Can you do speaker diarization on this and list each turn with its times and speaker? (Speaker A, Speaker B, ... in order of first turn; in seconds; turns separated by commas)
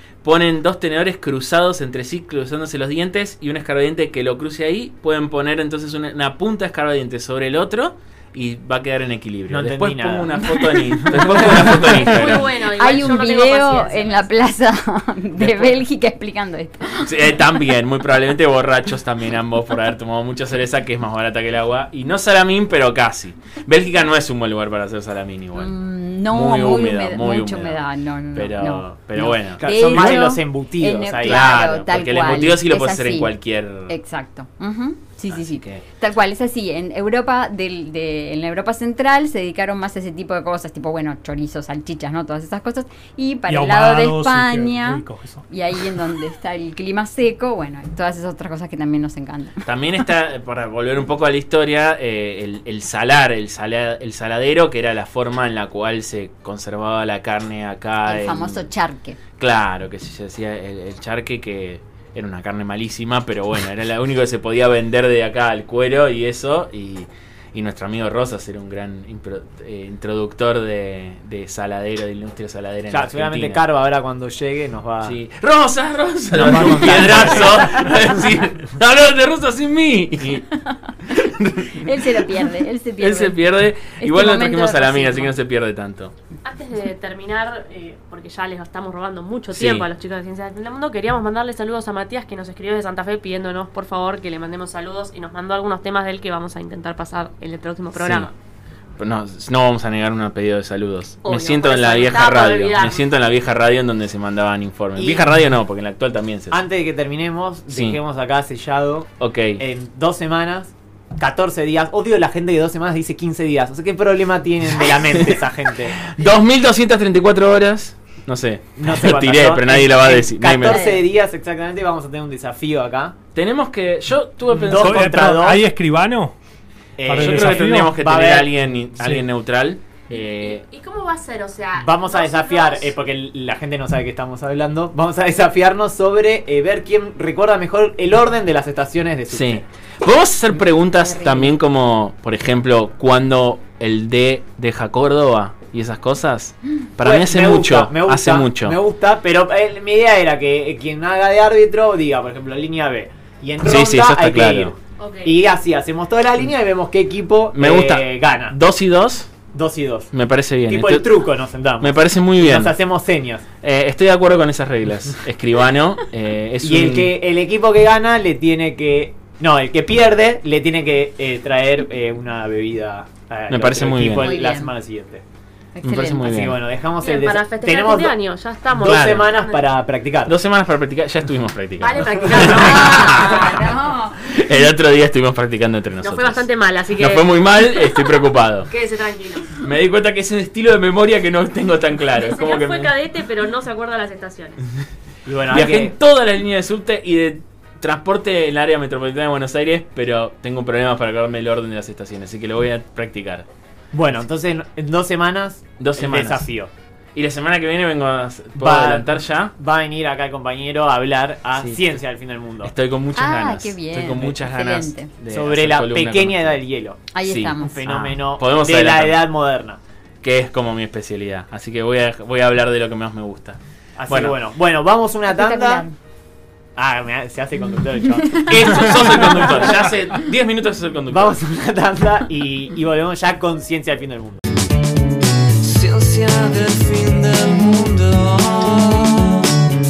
Speaker A: 0.2-12.6, Speaker B: 9.5-12.1, Speaker C: 10.5-11.8, Speaker D: 11.6-14.3, Speaker C: 12.8-17.5, Speaker A: 15.4-15.8, Speaker A: 17.0-25.7, Speaker C: 25.6-33.4, Speaker A: 26.3-27.8, Speaker A: 28.3-30.1, Speaker B: 29.6-31.5, Speaker A: 31.2-34.0, Speaker C: 33.9-49.6, Speaker A: 35.3-35.8, Speaker E: 43.5-46.0, Speaker A: 49.6-58.6, Speaker C: 58.1-59.2, Speaker A: 59.4-73.6, Speaker B: 72.9-75.2, Speaker A: 75.0-80.5, Speaker B: 76.3-78.1, Speaker C: 77.0-77.7, Speaker A: 81.1-81.8, Speaker C: 81.7-83.4, Speaker A: 83.0-86.1, Speaker C: 84.0-85.3, Speaker D: 86.4-98.3, Speaker A: 89.5-89.9, Speaker A: 98.0-98.3, Speaker A: 99.0-106.6, Speaker D: 101.2-103.0, Speaker B: 105.0-105.3, Speaker B: 106.5-116.0, Speaker A: 107.7-108.0, Speaker A: 109.2-109.6, Speaker A: 114.8-115.4, Speaker A: 116.0-120.9, Speaker B: 118.8-123.2, Speaker C: 120.7-121.0, Speaker A: 123.3-125.2, Speaker B: 124.5-125.6, Speaker E: 124.6-126.3, Speaker B: 127.0-128.5, Speaker E: 127.0-128.0, Speaker A: 127.2-130.7, Speaker D: 130.1-132.9, Speaker B: 131.8-139.6, Speaker A: 139.3-148.8, Speaker C: 140.9-141.6, Speaker B: 147.0-158.6, Speaker A: 153.6-154.8, Speaker D: 155.0-155.4, Speaker A: 157.5-159.3, Speaker B: 159.5-160.1, Speaker A: 160.1-161.1, Speaker B: 160.7-163.5, Speaker A: 161.8-162.7, Speaker A: 163.6-167.1, Speaker B: 166.6-175.2, Speaker A: 173.5-174.3, Speaker C: 174.2-174.7, Speaker C: 175.8-176.4, Speaker A: 175.8-176.6, Speaker B: 176.3-178.2, Speaker D: 177.0-179.6, Speaker B: 178.8-180.3, Speaker A: 178.8-179.3, Speaker A: 180.2-188.7, Speaker D: 181.8-183.6, Speaker C: 182.5-184.2, Speaker B: 182.6-183.0, Speaker D: 186.0-188.0, Speaker D: 188.7-189.5, Speaker A: 189.6-192.9, Speaker D: 192.2-194.6, Speaker B: 195.2-195.9, Speaker A: 195.5-203.5, Speaker B: 203.9-206.7, Speaker A: 205.8-206.5, Speaker A: 207.2-209.5, Speaker B: 208.6-212.7, Speaker A: 211.6-211.9, Speaker A: 212.6-216.6, Speaker C: 213.2-215.1, Speaker B: 215.3-219.8, Speaker C: 217.1-218.1, Speaker A: 217.2-219.3, Speaker A: 220.2-224.4, Speaker B: 224.0-225.9, Speaker C: 225.3-225.9, Speaker B: 226.8-229.8, Speaker A: 228.3-231.4, Speaker B: 231.1-234.4, Speaker F: 235.7-239.3